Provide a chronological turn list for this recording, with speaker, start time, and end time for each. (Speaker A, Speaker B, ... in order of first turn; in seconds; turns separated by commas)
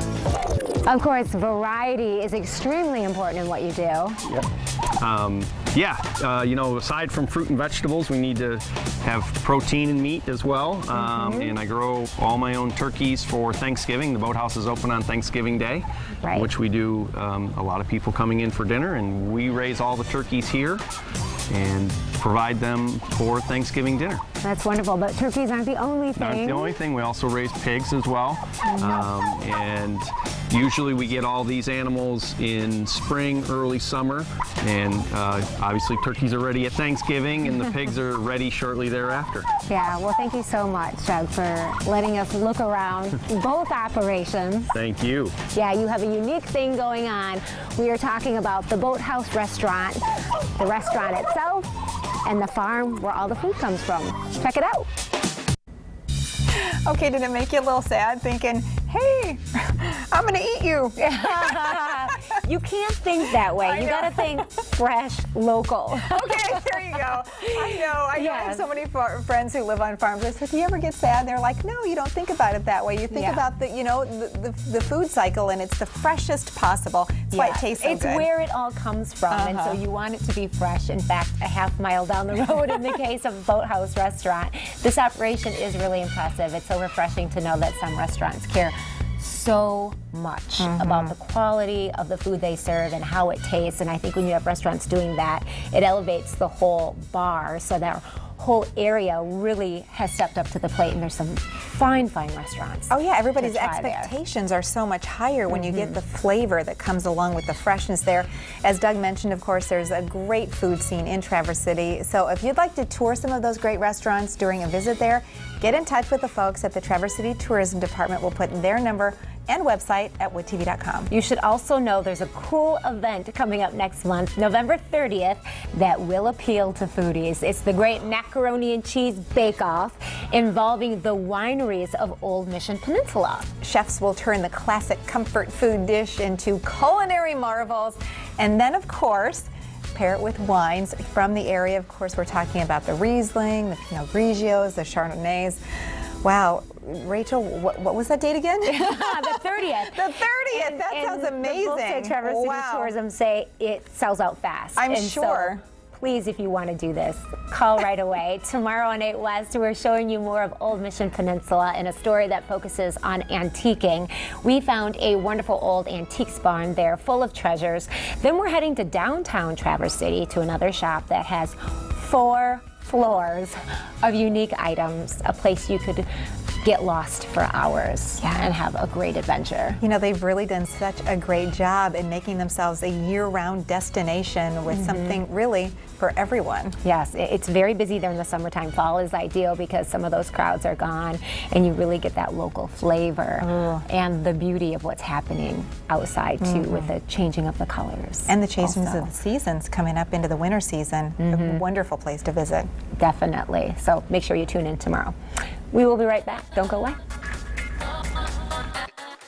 Speaker A: 0.8-4.3, Speaker B: 5.0-20.8, Speaker A: 10.9-11.5, Speaker A: 16.2-16.5, Speaker B: 21.5-24.2, Speaker A: 24.4-26.8, Speaker B: 26.2-39.5, Speaker A: 28.7-29.1, Speaker A: 39.7-44.7, Speaker B: 44.7-45.4, Speaker A: 45.5-50.0, Speaker A: 50.5-51.7, Speaker A: 52.2-54.9, Speaker C: 56.5-62.1, Speaker A: 61.0-68.6, Speaker C: 63.6-64.3, Speaker C: 66.0-78.3, Speaker A: 73.1-73.4, Speaker A: 77.3-104.1, Speaker C: 79.3-79.8, Speaker C: 90.6-91.1, Speaker C: 102.9-121.1, Speaker A: 121.1-133.5, Speaker C: 133.6-145.6, Speaker C: 146.2-152.9, Speaker A: 148.7-176.1, Speaker C: 154.8-155.6, Speaker A: 176.6-179.8, Speaker C: 178.2-178.5, Speaker C: 179.8-186.8, Speaker A: 184.8-185.1, Speaker A: 186.8-199.1, Speaker C: 193.4-193.8, Speaker C: 196.4-196.9, Speaker C: 198.3-202.7, Speaker A: 201.2-201.6, Speaker A: 203.0-205.1, Speaker A: 205.7-207.0